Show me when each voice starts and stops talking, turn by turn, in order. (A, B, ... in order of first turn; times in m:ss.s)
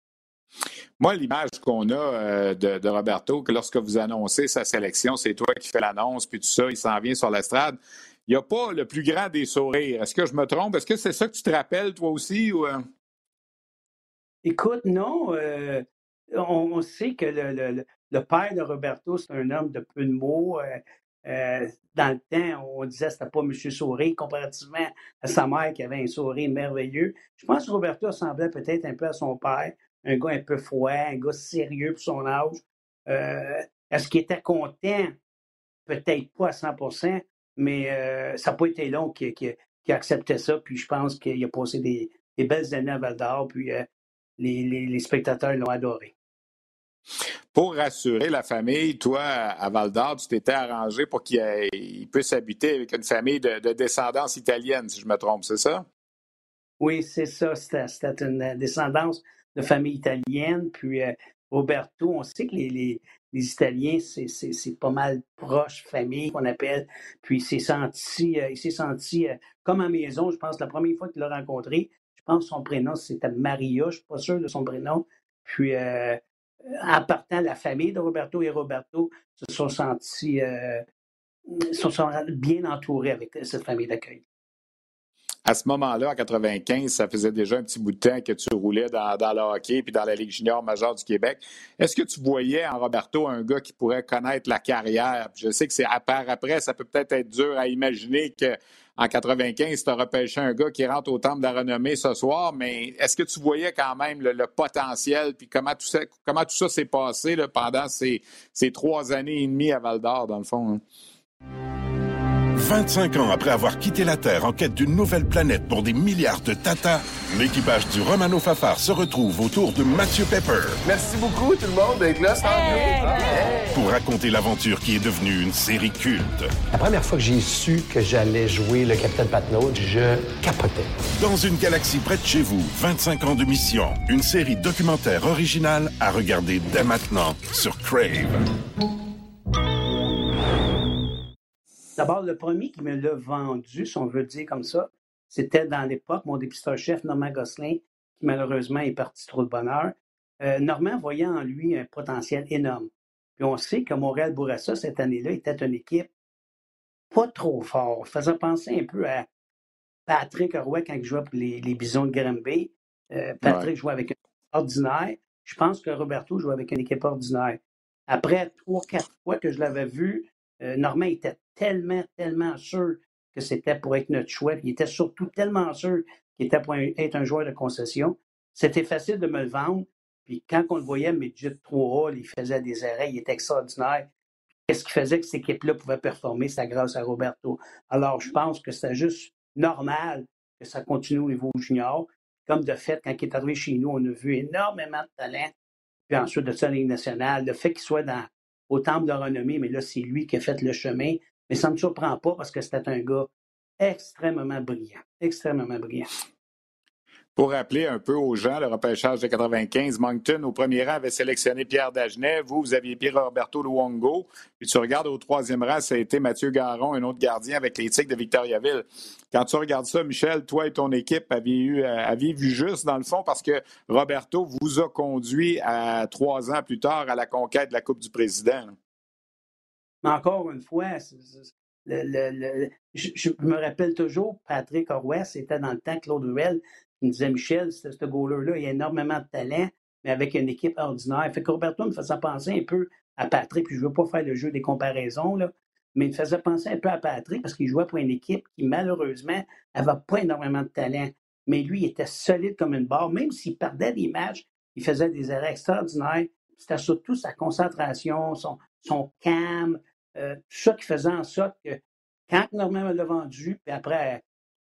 0:01.0-0:12.8 A
0:14.4-0:35.2 B
0:35.9-0:43.9 B
0:44.4-0:46.1 B
0:47.5-0:55.9 A
0:56.8-1:16.2 B
1:16.8-1:20.8 B
1:21.5-1:24.2 B
1:25.4-1:50.8 A
1:52.6-2:00.8 C
2:00.8-2:03.7 D
2:03.7-2:06.5 C
2:06.7-2:10.9 E
2:11.2-2:18.4 C
2:22.0-2:36.1 B
2:37.1-2:39.3 B
2:40.1-3:04.1 B
2:43.4-2:43.7 A
3:04.7-3:15.5 B
3:16.1-3:26.1 B
3:27.4-3:48.7 A
3:50.0-4:24.2 B